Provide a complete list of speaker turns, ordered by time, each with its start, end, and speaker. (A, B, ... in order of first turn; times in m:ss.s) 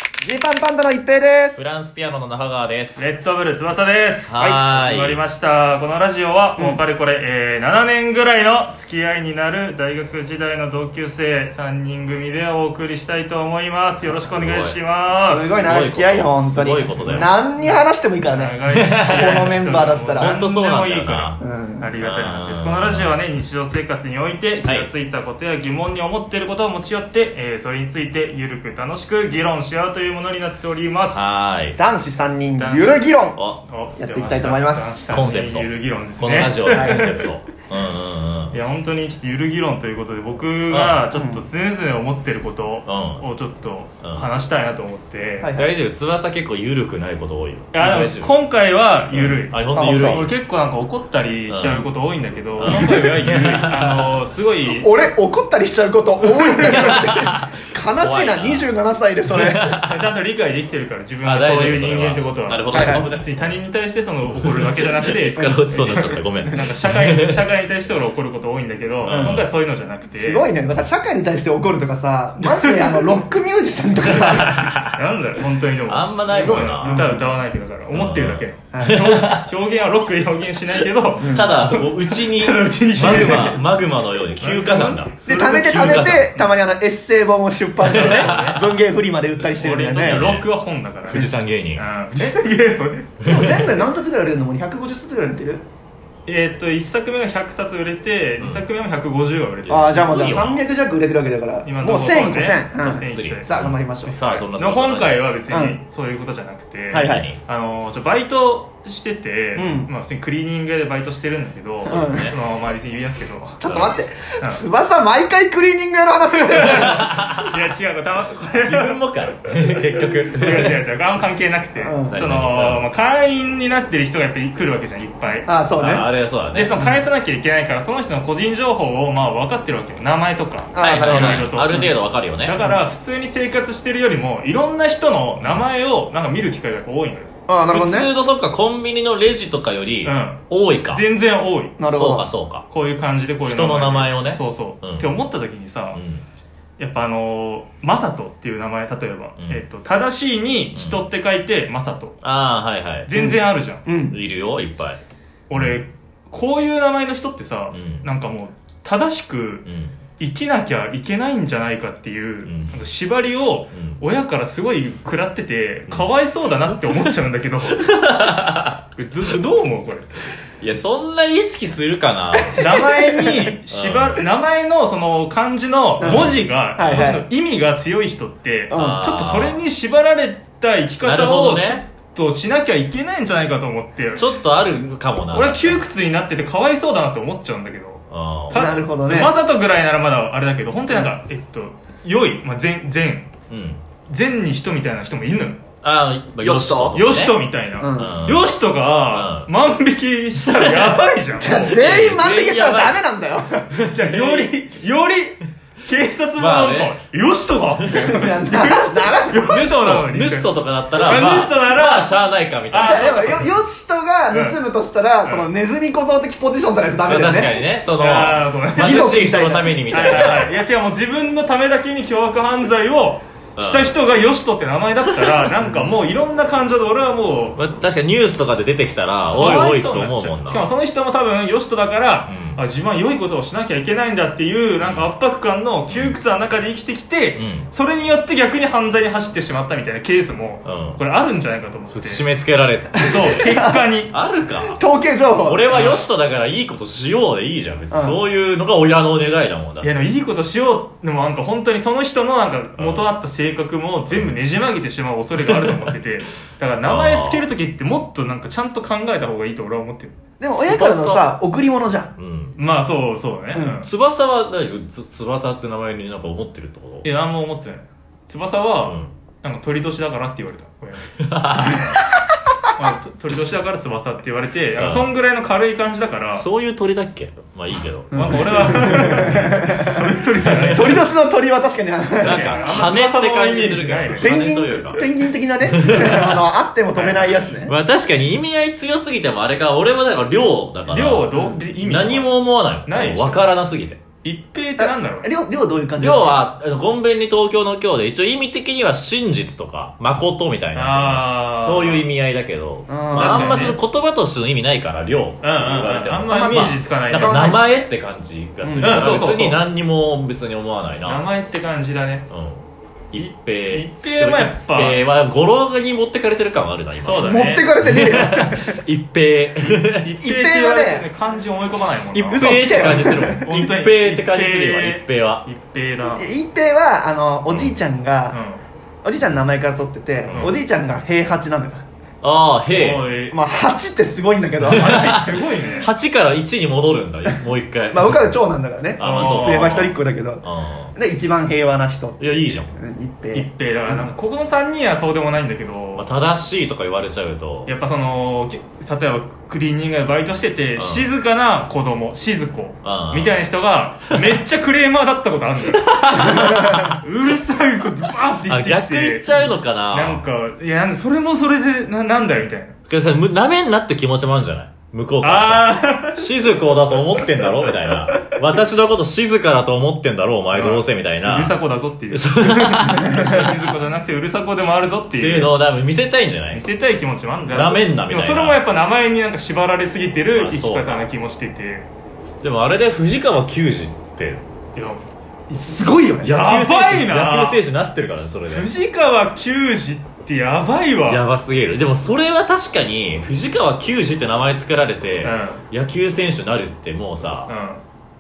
0:00.2-0:01.6 A
0:01.6-0:03.1 B
0:03.0-0:15.6 C
0:04.3-0:05.2 B
0:14.1-0:14.8 B
0:15.1-0:20.4 A
0:15.6-0:17.3 B
0:16.9-0:31.2 C
0:18.7-0:21.4 B
0:21.4-0:21.9 A
0:22.0-0:23.2 B
0:31.1-0:31.8 B
0:31.8-0:33.4 A
0:32.6-0:33.1 C
0:33.4-0:33.6 B
0:33.7-0:37.2 C
0:34.0-0:35.0 A
0:35.1-0:38.6 B
0:36.7-0:37.1 A
0:38.5-0:45.5 C
0:40.7-0:41.1 B
0:41.1-0:41.4 A
0:42.9-0:43.2 B
0:44.0-0:44.3 B
0:45.4-0:45.7 A
0:45.5-0:48.4 B
0:47.7-0:55.0 C
0:49.1-0:50.4 B
0:49.7-0:50.3 A
0:51.5-0:51.9 B
0:52.6-0:54.2 B
0:54.7-0:59.7 A
0:56.5-0:56.9 C
0:56.6-0:58.7 B
0:59.3-1:00.1 B
0:59.8-1:10.5 C
1:01.2-1:03.6 B
1:02.7-1:03.0 A
1:04.5-1:07.5 B
1:05.4-1:06.6 A
1:09.0-1:09.5 B
1:09.1-1:09.4 A
1:10.1-1:14.6 A
1:12.6-1:13.0 C
1:14.0-1:15.0 B
1:14.9-1:23.6 C
1:15.9-1:17.0 B
1:16.3-1:17.3 A
1:17.9-1:19.5 B
1:18.7-1:19.0 A
1:21.2-1:21.6 A
1:21.2-1:26.3 B
1:23.0-1:23.6 A
1:24.4-1:26.2 C
1:25.2-1:30.3 A
1:27.9-1:28.6 C
1:27.9-1:28.8 B
1:29.6-1:33.3 C
1:30.0-1:30.5 B
1:31.1-1:32.3 B
1:33.2-1:33.8 B
1:33.2-1:35.6 A
1:36.3-1:40.6 C
1:38.4-1:38.7 B
1:39.6-1:40.6 B
1:39.7-1:44.2 A
1:41.6-1:43.5 C
1:42.9-1:45.3 B
1:44.1-1:53.6 C
1:45.5-1:45.8 A
1:46.9-1:47.3 A
1:46.9-1:47.4 B
1:49.6-1:49.9 A
1:51.9-1:52.4 B
1:51.9-1:52.3 A
1:53.6-1:57.1 A
1:53.6-1:53.9 B
1:56.3-1:59.0 C
1:56.7-1:57.6 B
1:58.5-2:00.8 B
2:00.3-2:05.5 C
2:01.8-2:02.2 A
2:02.1-2:02.9 B
2:05.5-2:06.1 A
2:05.8-2:06.8 B
2:06.5-2:17.3 C
2:10.7-2:11.9 A
2:10.8-2:12.6 B
2:17.5-2:18.1 A
2:17.7-2:21.0 B
2:20.0-2:21.8 C
2:21.8-2:22.3 A
2:21.9-2:22.7 B
2:22.7-2:26.0 C
2:23.4-2:25.2 B
2:26.0-2:26.2 B
2:26.8-2:32.2 C
2:30.8-2:31.0 B
2:32.2-2:33.1 B
2:33.1-2:33.8 C
2:33.1-2:34.2 A
2:34.1-2:35.0 B
2:35.5-2:39.7 C
2:35.6-2:35.8 B
2:37.7-2:38.1 B
2:39.7-2:40.0 B
2:40.2-2:47.8 C
2:42.5-2:42.8 B
2:43.7-2:44.0 B
2:46.7-2:47.1 B
2:47.7-2:48.9 B
2:49.0-2:50.1 C
2:50.6-2:52.7 B
2:52.5-2:53.5 A
2:52.6-3:04.3 C
2:53.7-2:54.2 B
2:56.0-2:57.3 A
2:56.0-2:56.4 B
2:58.7-2:59.1 A
2:58.7-2:59.6 B
3:01.0-3:01.8 B
3:04.2-3:05.9 B
3:05.3-3:13.3 C
3:08.1-3:08.8 B
3:08.5-3:09.4 A
3:13.5-3:13.8 B
3:14.1-3:15.6 C
3:15.8-3:17.4 B
3:16.4-3:17.0 A
3:16.9-3:21.8 C
3:17.8-3:18.2 A
3:17.9-3:18.5 B
3:19.1-3:19.5 B
3:21.4-3:24.6 A
3:21.5-3:23.0 B
3:23.8-3:33.4 C
3:23.8-3:24.2 B
3:26.4-3:27.0 B
3:27.8-3:28.2 B
3:27.9-3:29.6 A
3:29.5-3:33.4 B
3:32.8-3:37.6 A
3:34.3-3:34.6 C
3:37.1-3:40.5 B
3:38.0-3:39.1 C
3:38.8-3:39.8 A
3:39.9-3:47.6 C
3:43.6-3:44.0 B
3:45.6-3:45.9 A
3:47.6-3:50.7 B
3:49.3-4:02.2 C
3:52.3-3:52.6 B
3:54.8-3:55.1 B
3:55.9-3:56.2 B
3:57.4-3:57.7 B
4:00.6-4:01.0 B
4:01.9-4:03.1 B
4:03.0-4:04.1 C
4:03.2-4:03.8 A
4:04.1-4:04.8 B
4:04.7-4:06.0 A
4:05.4-4:10.0 B
4:05.7-4:06.0 C
4:07.9-4:08.2 A
4:09.8-4:20.2 C
4:12.8-4:13.1 B
4:15.5-4:15.9 B
4:16.8-4:17.5 B
4:20.4-4:22.1 A
4:20.5-4:21.3 B
4:22.2-4:22.6 B
4:22.6-4:23.9 C
4:23.5-4:23.8 A
4:23.8-4:27.1 B
4:27.0-4:31.1 C
4:28.9-4:29.1 B
4:31.2-4:32.0 B
4:32.8-4:36.5 C
4:34.8-4:35.1 B
4:36.3-4:39.4 B
4:38.1-4:40.0 A
4:38.1-4:41.0 C
4:40.5-4:40.8 B
4:40.7-4:42.6 A
4:42.2-4:45.1 B
4:42.2-4:44.4 C
4:44.2-4:47.7 A
4:45.6-4:46.5 B
4:47.0-4:47.3 C
4:47.0-4:54.0 B
4:50.9-4:53.5 C
4:51.3-4:51.6 A
4:54.2-4:55.3 C
4:54.8-4:56.5 A
4:56.0-5:11.3 B
5:00.7-5:02.1 C
5:02.9-5:03.6 A
5:03.1-5:03.8 C
5:05.4-5:07.6 C
5:06.3-5:07.6 A
5:08.6-5:09.2 A
5:08.8-5:09.6 C
5:11.0-5:12.3 C
5:12.3-5:20.1 B
5:13.1-5:15.1 C
5:17.0-5:17.7 C
5:17.2-5:18.8 A
5:20.0-5:26.3 C
5:20.2-5:21.1 A
5:22.1-5:25.4 B
5:22.3-5:23.5 A
5:26.1-5:28.4 A
5:28.3-5:28.6 C
5:29.0-5:31.9 A
5:30.3-5:30.6 B
5:30.3-5:30.6 C
5:32.2-5:33.1 B
5:32.7-5:33.4 C
5:33.3-5:35.1 A
5:34.6-5:38.3 B
5:34.7-5:35.9 C
5:37.9-5:42.2 A
5:39.0-5:40.9 B
5:39.0-5:39.9 C
5:42.2-5:42.7 B
5:42.7-5:44.1 A
5:43.3-5:46.1 C
5:46.0-5:47.7 B
5:47.7-6:02.7 C
5:50.8-5:51.1 B
5:52.8-5:53.5 B
5:55.8-5:57.0 B
5:56.3-5:56.7 A
5:58.5-6:00.2 B
6:02.9-6:11.6 B
6:05.2-6:06.2 C
6:10.5-6:15.5 C
6:12.1-6:13.5 B
6:15.2-6:16.6 B
6:16.5-6:21.9 C
6:17.5-6:18.6 B
6:20.3-6:21.1 B
6:22.4-6:24.4 B
6:24.8-6:25.0 C
6:25.5-6:26.4 A
6:26.2-6:28.7 B
6:26.2-6:27.6 C
6:28.4-6:31.2 C
6:31.1-6:37.5 B
6:35.2-6:35.6 C
6:37.5-6:37.8 C